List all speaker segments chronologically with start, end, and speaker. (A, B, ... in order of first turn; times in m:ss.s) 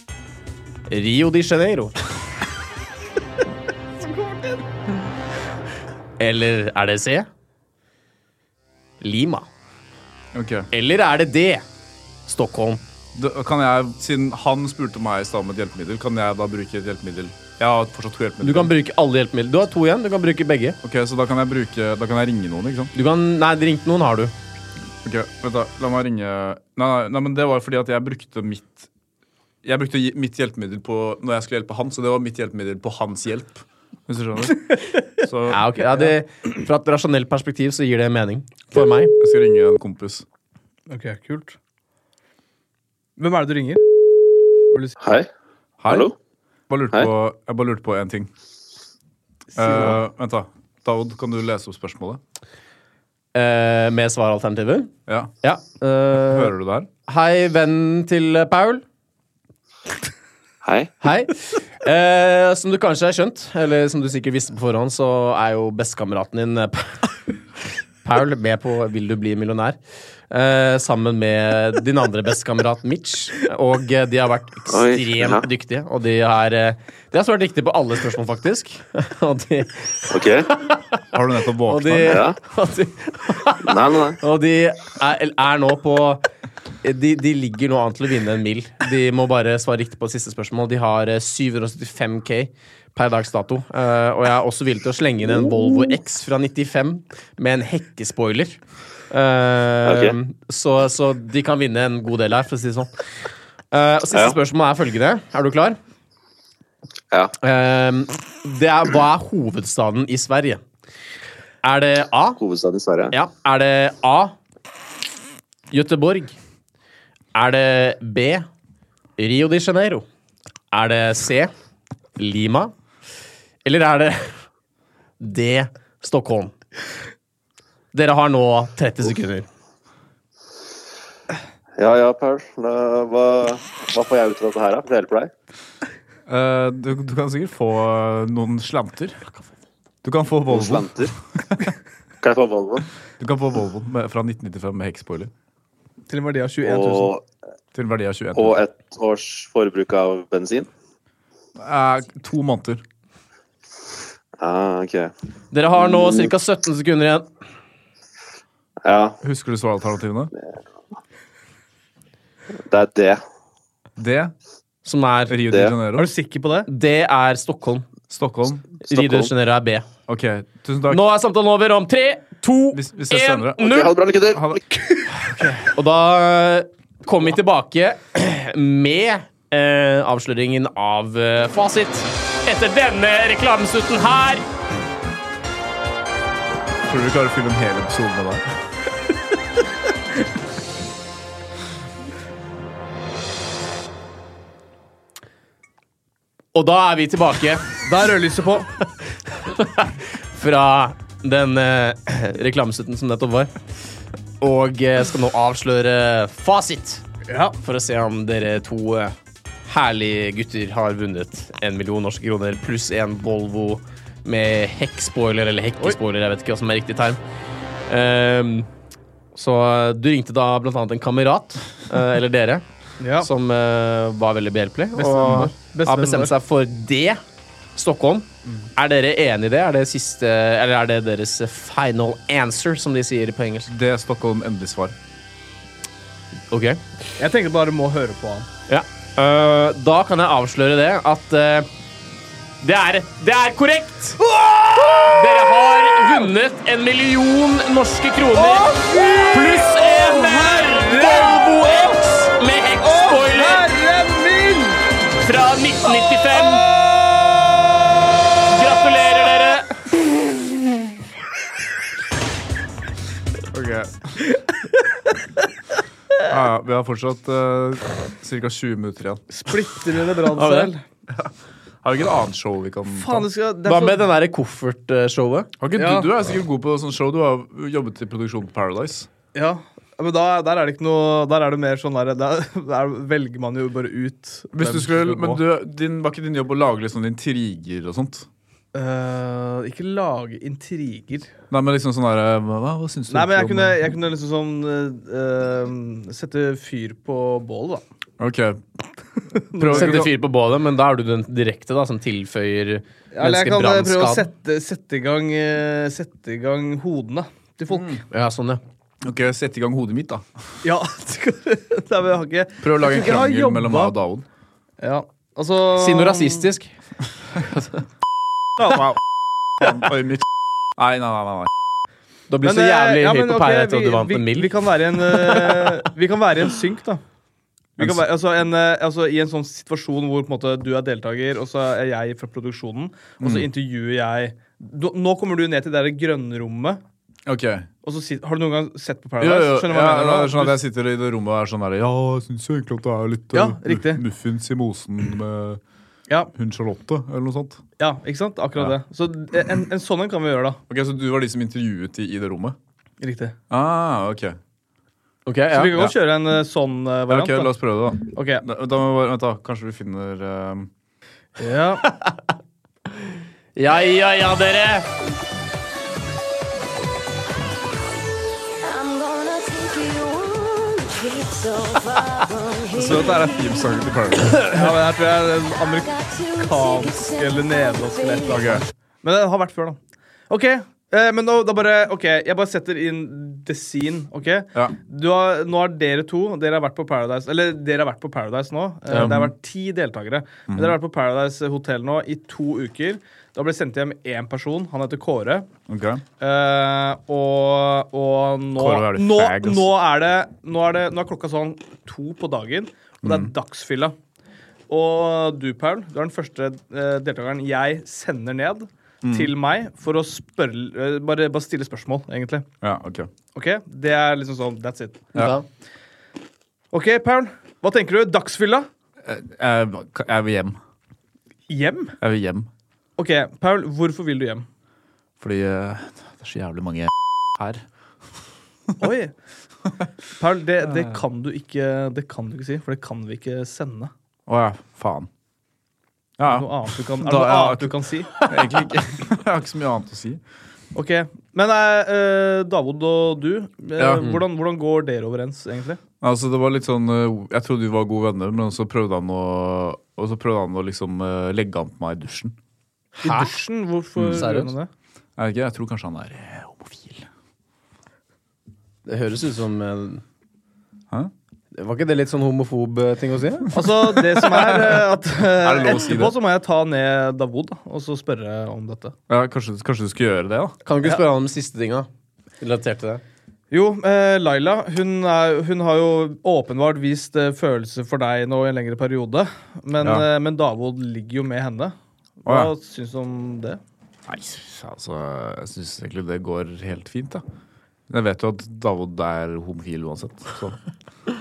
0:00.9-0:01.9 A
0:04.0-0:04.6 B
0:06.2-0:07.3 A
0:09.0-0:09.5 A
0:10.3-0:10.7 C
0:10.7-0:11.6 A
0:12.3-0:12.8 A
0:13.1-0:18.7 C
0:18.4-0:20.8 A
0:20.8-0:22.9 C
0:22.9-0:24.3 A
0:25.0-0:28.9 C
0:29.6-0:35.8 C
0:35.5-0:39.1 A
0:39.1-0:40.2 C
0:40.9-0:41.6 B
0:43.2-0:43.8 B
0:44.7-0:45.0 B
0:45.0-0:45.3 D
0:45.8-0:46.1 C
0:45.9-0:46.1 D
0:46.7-0:48.3 C
0:49.5-0:50.0 B
0:49.6-0:52.2 C
0:53.3-0:56.5 A
0:55.1-0:55.3 C
0:56.2-0:56.9 C
0:57.1-0:58.8 A
1:00.6-1:00.9 D
1:01.0-1:07.0 A
1:08.0-1:09.8 A
1:10.3-1:21.0 A
1:14.7-1:15.4 D
1:20.1-1:20.5 D
1:21.1-1:22.2 C
1:21.6-1:26.2 A
1:22.1-1:22.4 D
1:23.6-1:24.2 D
1:26.8-1:38.6 A
1:39.1-1:42.9 A
1:39.8-1:40.2 D
1:43.7-1:45.8 A
1:47.4-1:50.6 A
1:51.6-1:52.4 A
1:52.4-1:53.1 D
1:53.1-1:54.3 A
1:55.7-1:56.4 A
1:57.3-1:58.5 A
1:59.2-2:00.0 A
2:00.7-2:01.5 A
2:02.2-2:02.7 A
2:03.6-2:04.3 A
2:05.2-2:06.5 A
2:07.9-2:09.5 A
2:11.8-2:15.3 D
2:16.3-2:19.2 C
2:20.0-2:21.7 C
2:20.5-2:21.1 D
2:22.2-2:22.8 D
2:23.2-2:25.3 C
2:26.1-2:27.1 B
2:26.6-2:27.2 D
2:27.7-2:28.6 C
2:28.3-2:30.7 D
2:31.6-2:32.8 C
2:34.4-2:35.1 D
2:35.5-2:37.3 A
2:38.8-2:39.2 D
2:39.2-2:40.3 C
2:42.7-2:43.2 D
2:44.0-2:44.3 C
2:44.8-2:45.4 A
2:45.3-2:46.1 C
2:45.5-2:45.8 D
2:46.0-2:46.7 B
2:46.7-2:47.8 A
2:48.1-2:48.8 C
2:48.8-2:49.9 A
2:48.9-2:49.3 D
2:50.1-2:51.0 C
2:50.9-2:54.0 A
2:52.7-2:54.6 C
2:53.6-2:54.6 D
2:55.3-3:04.5 A
3:06.8-3:08.5 C
3:16.5-3:17.8 A
3:17.8-3:18.7 B
3:19.1-3:23.5 A
3:24.4-3:27.0 A
3:27.3-3:27.6 B
3:27.6-3:29.1 A
3:29.6-3:37.2 A
3:37.9-3:38.7 A
3:39.3-3:42.6 A
3:43.0-3:43.3 B
3:43.2-3:47.2 A
3:44.9-3:46.3 B
3:47.8-3:53.7 A
3:53.7-3:55.0 C
3:56.5-3:56.8 A
3:57.2-3:58.5 B
3:58.7-4:01.7 A
4:02.6-4:04.3 A
4:04.3-4:05.2 B
4:04.8-4:13.7 A
4:08.4-4:12.0 B
4:12.8-4:14.8 B
4:15.2-4:16.7 A
4:16.7-4:17.3 B
4:18.4-4:19.7 A
4:23.5-4:24.2 C
4:26.2-4:29.2 C
4:29.3-4:30.8 B
4:30.3-4:30.7 A
4:31.8-4:33.3 C
4:32.9-4:34.1 B
4:33.6-4:35.5 A
4:35.6-4:39.1 C
4:35.8-4:36.1 B
4:39.3-4:45.4 B
4:44.5-4:48.3 C
4:48.7-4:51.3 B
4:51.5-4:53.8 C
4:53.1-4:57.8 B
4:58.2-4:58.6 C
4:59.5-5:00.0 B
4:59.5-5:00.1 C
4:59.6-5:04.3 A
5:03.1-5:08.0 B
5:08.1-5:08.6 A
5:09.0-5:10.2 C
5:10.6-5:13.9 B
5:12.6-5:14.2 C
5:14.8-5:16.5 B
5:15.7-5:16.7 A
5:18.6-5:19.0 B
5:18.6-5:18.9 C
5:19.6-5:21.5 C
5:22.3-5:25.8 A
5:22.4-5:27.0 B
5:27.8-5:36.8 B
5:27.8-5:28.0 C
5:33.2-5:33.5 C
5:37.2-5:37.7 C
5:37.8-5:40.6 B
5:39.2-5:45.6 C
5:43.3-5:44.0 B
5:46.3-5:47.6 C
5:47.8-5:50.6 B
5:50.7-5:52.6 C
5:53.0-5:53.4 B
5:53.5-5:54.4 C
5:55.2-5:55.7 A
5:55.5-5:57.5 B
5:57.1-6:00.7 C
5:58.1-5:58.4 B
6:01.4-6:01.8 B
6:01.8-6:02.2 A
6:03.6-6:04.9 A
6:08.6-6:13.8 E
6:12.7-6:14.8 C
6:14.5-6:19.8 B
6:15.5-6:18.4 E
6:18.3-6:18.6 C
6:20.3-6:35.5 B
6:28.9-6:29.3 C
6:30.5-6:30.8 C
6:35.7-6:36.0 C
6:36.2-6:43.9 B
6:38.6-6:39.7 C
6:43.0-6:43.3 C
6:44.7-6:52.5 B
6:49.0-6:49.3 C
6:52.6-6:53.1 C
6:53.3-6:55.1 B
6:55.1-6:55.4 A
6:56.7-6:58.7 B
6:59.0-7:00.6 C
7:01.5-7:02.0 B
7:02.0-7:02.5 C
7:03.0-7:04.4 B
7:05.2-7:07.6 C
7:08.8-7:09.1 B
7:10.2-7:13.9 B
7:10.6-7:11.0 C
7:14.3-7:15.1 C
7:16.2-7:20.2 C
7:16.2-7:18.2 B
7:20.7-7:25.8 B
7:23.8-7:24.1 C
7:26.0-7:32.3 C
7:33.0-7:33.3 A
7:33.0-7:34.7 B
7:34.0-7:34.3 C
7:34.1-7:34.5 A
7:35.2-7:37.1 C
7:38.8-7:40.0 A
7:41.5-7:43.6 A
7:43.5-7:48.9 B
7:44.1-7:46.1 C
7:49.1-7:50.6 C
7:50.6-7:51.9 A
7:52.4-7:53.0 A
7:53.5-8:03.6 B
7:59.8-8:00.1 C
8:02.2-8:02.5 C
8:04.1-8:07.2 C
8:07.9-8:10.6 C